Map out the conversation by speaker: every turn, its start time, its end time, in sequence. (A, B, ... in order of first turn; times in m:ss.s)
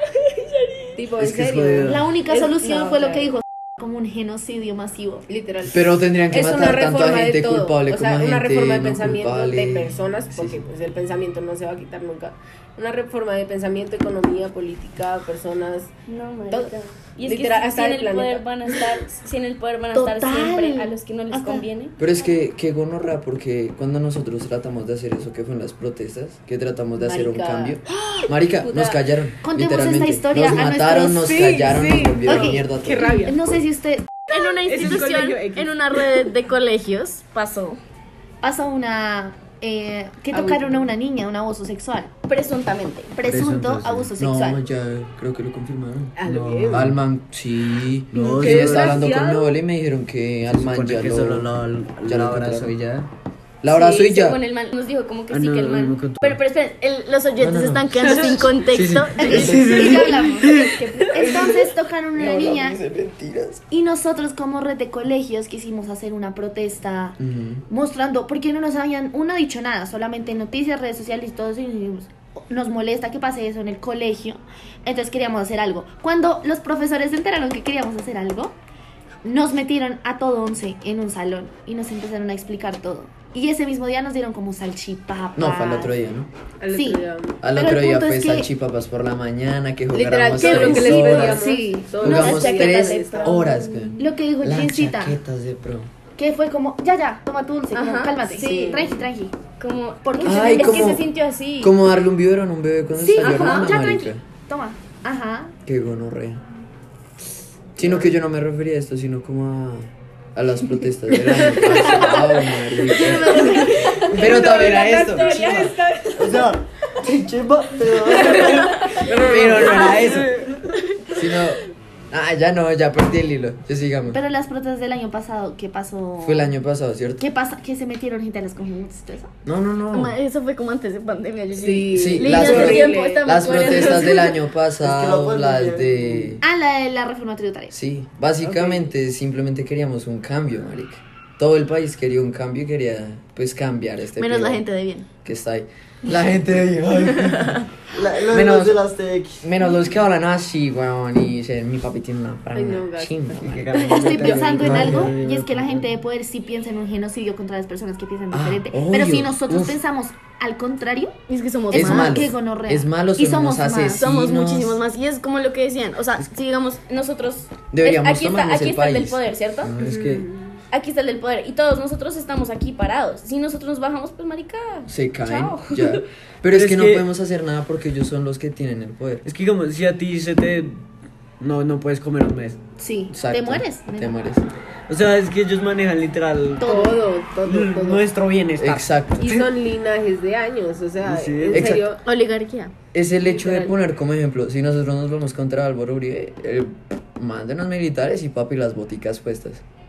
0:00.2-0:01.0 A
0:00.9-0:03.4 B
0:01.2-0:02.1 C
0:01.8-0:05.3 D
0:05.3-0:16.0 B
0:05.6-0:10.6 E
0:16.1-0:22.0 A
0:16.5-0:19.0 B
0:19.9-0:21.7 D
0:22.0-0:33.3 E
0:27.0-0:29.0 B
0:29.4-0:31.4 D
0:31.2-0:33.4 B
0:32.3-0:35.1 D
0:34.3-0:37.8 A
0:34.7-0:36.0 B
0:38.4-0:42.1 D
0:40.3-0:40.9 B
0:42.3-0:43.2 A
0:43.2-0:44.6 D
0:43.2-0:44.1 C
0:44.2-0:46.1 E
0:46.2-0:46.9 B
0:46.2-0:47.0 C
0:46.7-0:51.5 E
0:48.1-0:49.2 C
0:48.2-0:49.6 B
0:50.5-0:53.1 C
0:52.0-0:52.7 E
0:53.6-0:54.4 E
0:53.7-0:59.6 A
0:55.3-0:56.4 C
0:57.4-1:00.0 E
0:59.2-1:01.4 C
0:59.2-1:02.8 D
1:00.8-1:01.4 A
1:02.1-1:03.6 E
1:03.7-1:18.6 D
1:07.2-1:07.7 E
1:19.2-1:26.0 D
1:25.4-1:26.3 E
1:26.6-1:27.4 B
1:26.7-1:28.5 D
1:27.4-1:35.9 E
1:29.9-1:33.4 B
1:30.4-1:32.9 D
1:32.0-1:34.1 A
1:34.0-1:35.2 D
1:36.2-1:39.4 D
1:37.7-1:39.0 A
1:38.4-1:39.0 B
1:39.6-1:41.8 A
1:40.0-1:41.0 D
1:40.2-1:41.0 E
1:41.6-1:44.2 E
1:43.0-1:45.6 D
1:43.2-1:44.0 A
1:45.7-1:46.4 E
1:47.8-1:55.8 E
1:51.3-1:52.3 B
1:52.9-1:56.5 B
1:53.0-1:54.0 D
1:53.4-1:54.1 A
1:55.2-1:55.6 A
1:56.2-2:00.4 C
1:58.2-2:00.3 B
1:59.2-2:00.4 E
2:01.1-2:01.6 E
2:02.1-2:04.2 E
2:04.1-2:06.5 D
2:06.2-2:07.3 E
2:07.2-2:09.3 D
2:09.4-2:10.1 E
2:09.9-2:14.3 A
2:11.6-2:14.3 B
2:11.9-2:16.4 E
2:14.8-2:16.4 C
2:16.4-2:17.7 D
2:17.7-2:24.6 E
2:18.4-2:18.8 C
2:24.2-2:25.1 A
2:25.2-2:27.7 E
2:27.0-2:27.6 A
2:27.9-2:29.5 C
2:28.3-2:28.8 E
2:29.4-2:33.8 E
2:32.5-2:34.5 B
2:33.4-2:35.9 C
2:33.8-2:44.1 D
2:34.5-2:35.2 E
2:38.3-2:39.8 E
2:41.3-2:42.3 A
2:41.7-2:44.8 E
2:43.9-2:49.8 A
2:47.7-2:50.3 E
2:49.8-2:50.6 B
2:50.7-2:56.0 A
2:54.9-2:59.2 E
2:56.5-2:57.1 C
2:59.2-3:00.8 C
3:01.4-3:02.6 C
3:02.8-3:04.2 D
3:03.1-3:04.4 E
3:04.9-3:06.9 C
3:06.6-3:08.0 B
3:06.6-3:07.0 D
3:07.4-3:09.0 C
3:08.6-3:09.5 E
3:09.2-3:12.0 B
3:11.0-3:11.8 C
3:11.5-3:11.9 E
3:12.0-3:12.7 A
3:12.9-3:19.6 E
3:13.2-3:13.7 B